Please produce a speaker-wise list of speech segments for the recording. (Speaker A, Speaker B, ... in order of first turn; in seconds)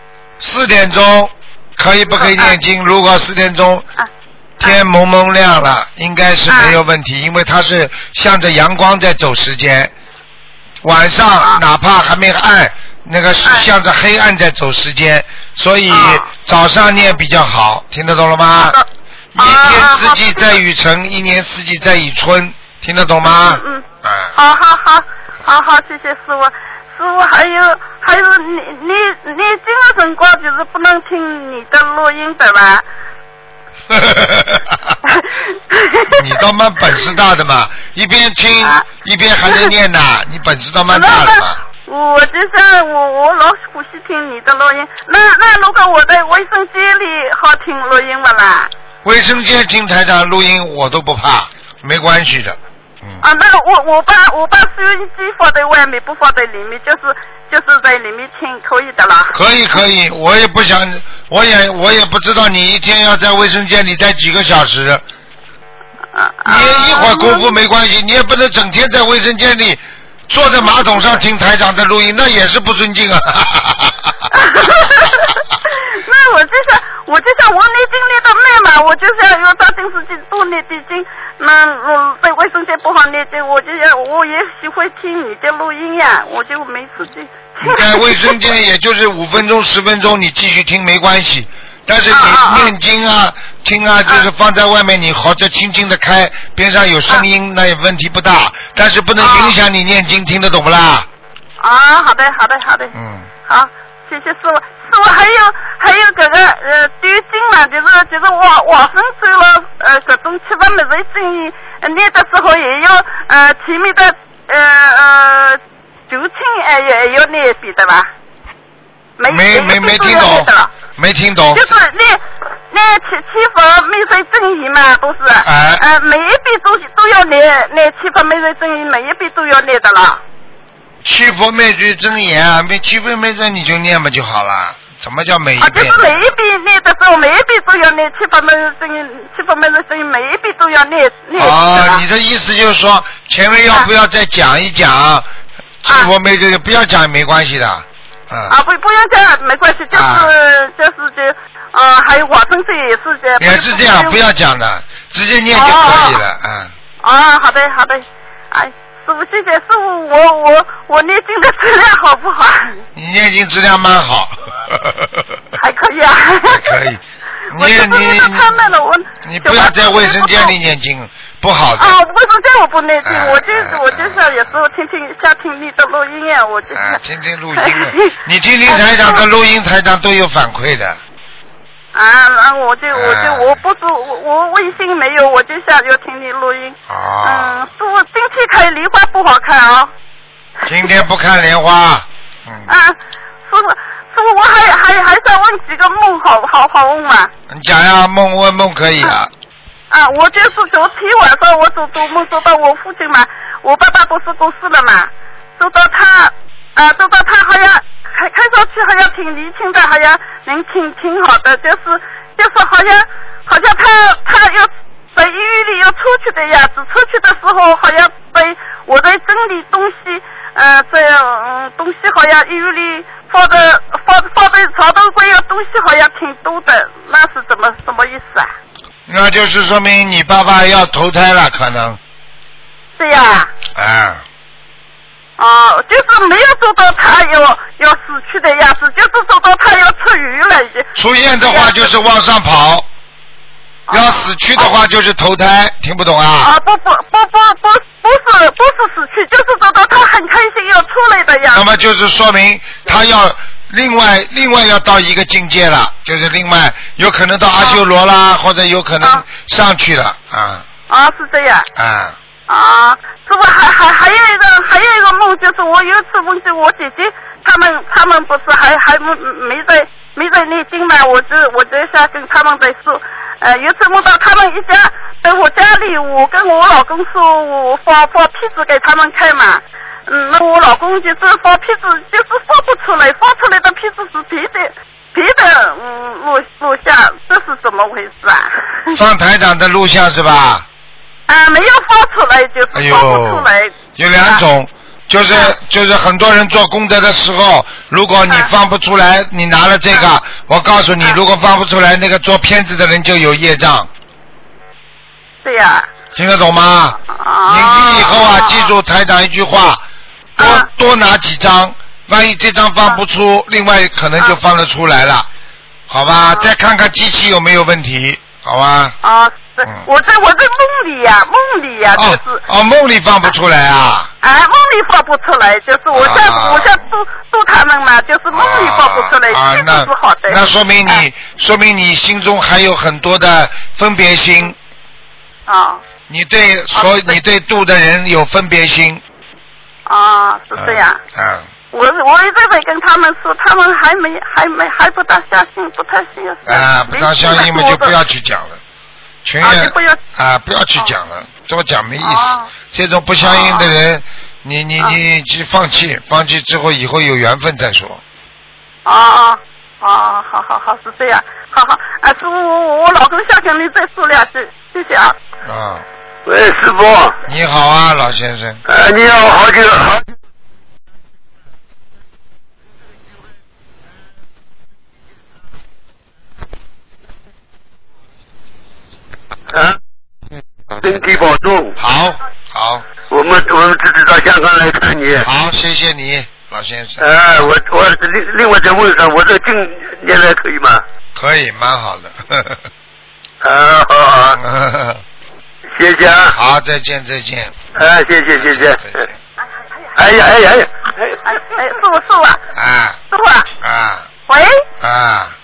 Speaker A: 0.4-3.9, 4.6-9.9, 10.8-18.8, 19.4-24.4, 33.9-35.0, 36.1-41.6, 49.0-53.2, 59.3-65.0, 66.5-74.3, 87.6-101.1, 102.9-103.3, 119.3-121.8, 125.4-125.8, 131.0-136.2, 141.3-145.3, 145.8-148.6, 149.9-150.3, 153.4-156.7, 162.9-165.4, 166.5-168.6, 169.2-172.0, 173.0-174.3, 176.7-181.0, 182.9-183.6, 186.9-187.7, 190.7-192.7, 197.5-199.3, 229.1-232.0, 233.8-234.2, 241.0-242.9, 243.9-246.5, 251.5-260.7, 261.8-262.2, 288.9-290.7, 292.7-303.9, 306.1-309.8, 310.4-315.3, 315.9-319.0, 321.9-324.1, 325.9-326.8, 328.3-334.6, 336.1-339.0, 340.6-341.5, 346.5-348.6, 349.2-358.0, 365.4-365.9, 367.3-368.6, 381.8-382.9, 385.2-387.5, 391.1-392.6, 394.3-395.0, 396.3-397.6, 398.4-399.2, 402.5-403.0, 403.6-404.1, 404.8-405.4
Speaker B: 2.1-2.5, 6.5-6.8, 15.9-16.3, 18.6-20.6, 23.3-23.8, 24.4-32.8, 35.0-36.4, 39.5-39.7, 40.9-48.7, 53.2-59.4, 66.1-67.6, 74.3-88.4, 92.1-92.7, 99.2-99.6, 101.6-102.9, 103.5-118.1, 119.2-120.7, 121.5-130.2, 135.6-142.0, 145.9-146.1, 148.5-154.2, 155.5-156.2, 157.0-162.8, 165.6-166.8, 167.5-170.6, 171.8-177.0, 177.5-178.2, 178.7-179.2, 181.9-189.9, 192.7-193.0, 193.5-197.3, 199.9-228.5, 233.0-233.5, 235.4-240.9, 241.4-241.9, 243.9-244.8, 246.4-251.7, 257.6-257.8, 260.9-261.7, 262.5-289.0, 291.3-294.4, 295.3-295.6, 305.4-305.9, 307.1-308.7, 310.4-310.7, 316.2-316.5, 319.0-322.4, 324.2-331.1, 335.5-335.8, 336.7-337.2, 339.9-341.0, 341.7-348.0, 349.4-350.0, 352.0-352.5, 353.2-353.7, 358.9-365.1, 401.3-402.4, 403.1-403.5, 404.3-404.6
Speaker C: 366.3-367.2, 368.7-370.1, 379.5-379.8, 380.8-381.8, 383.1-385.3, 387.0-390.8, 393.4-394.4, 395.8-396.4, 397.8-398.9, 400.0-401.2